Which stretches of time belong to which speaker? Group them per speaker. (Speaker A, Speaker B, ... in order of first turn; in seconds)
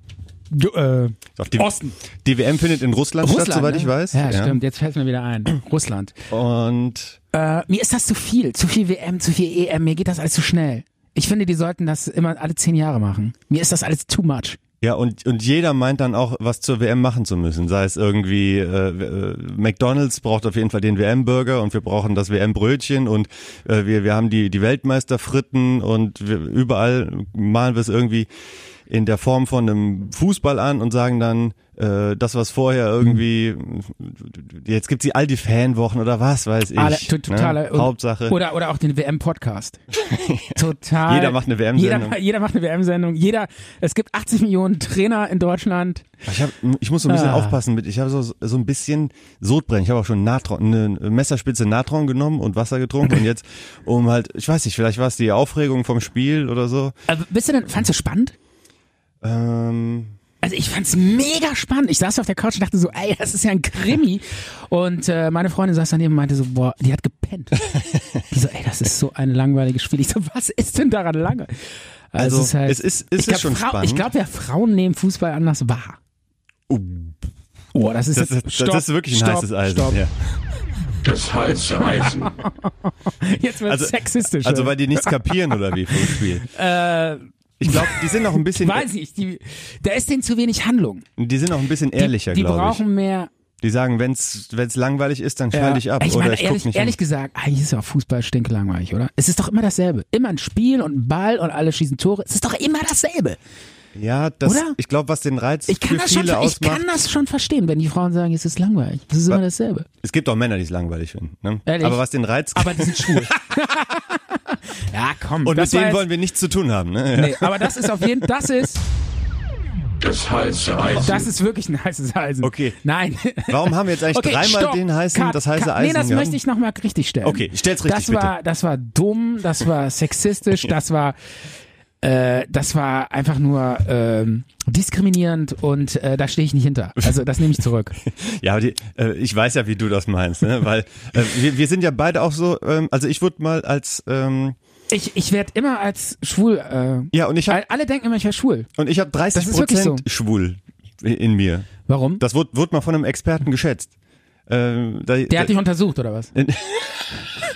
Speaker A: 0.5-1.9, 3.2-6.2, 7.3-14.6, 36.8-39.8, 40.5-46.0, 47.0-47.6, 57.1-58.4, 60.4-71.5, 72.1-76.0, 77.7-80.0, 81.7-91.0, 92.0-93.3, 95.5-103.4, 104.4-104.8, 105.7-109.9, 111.7-112.0, 112.5-116.1, 117.1-118.8, 120.9-131.2, 132.0-137.9, 144.9-148.7, 149.3-150.0, 151.9-152.2, 155.3-156.3
Speaker B: 1.4-4.6, 6.3-7.2, 14.8-28.3, 28.9-38.4, 40.0-42.2, 46.2-56.9, 59.2-60.1, 67.6-68.2, 72.2-74.1, 76.7-77.2, 78.1-80.4, 83.7-86.5, 87.6-88.9, 91.2-92.8, 93.6-97.0, 103.9-106.9, 110.0-113.3, 115.4-118.7, 120.9-121.2, 122.4-122.8, 123.5-126.4, 127.2-128.3, 138.0-144.6, 147.1-147.6, 148.8-153.9, 154.5-155.5, 156.3-156.9
Speaker C: 81.1-82.0, 120.0-121.0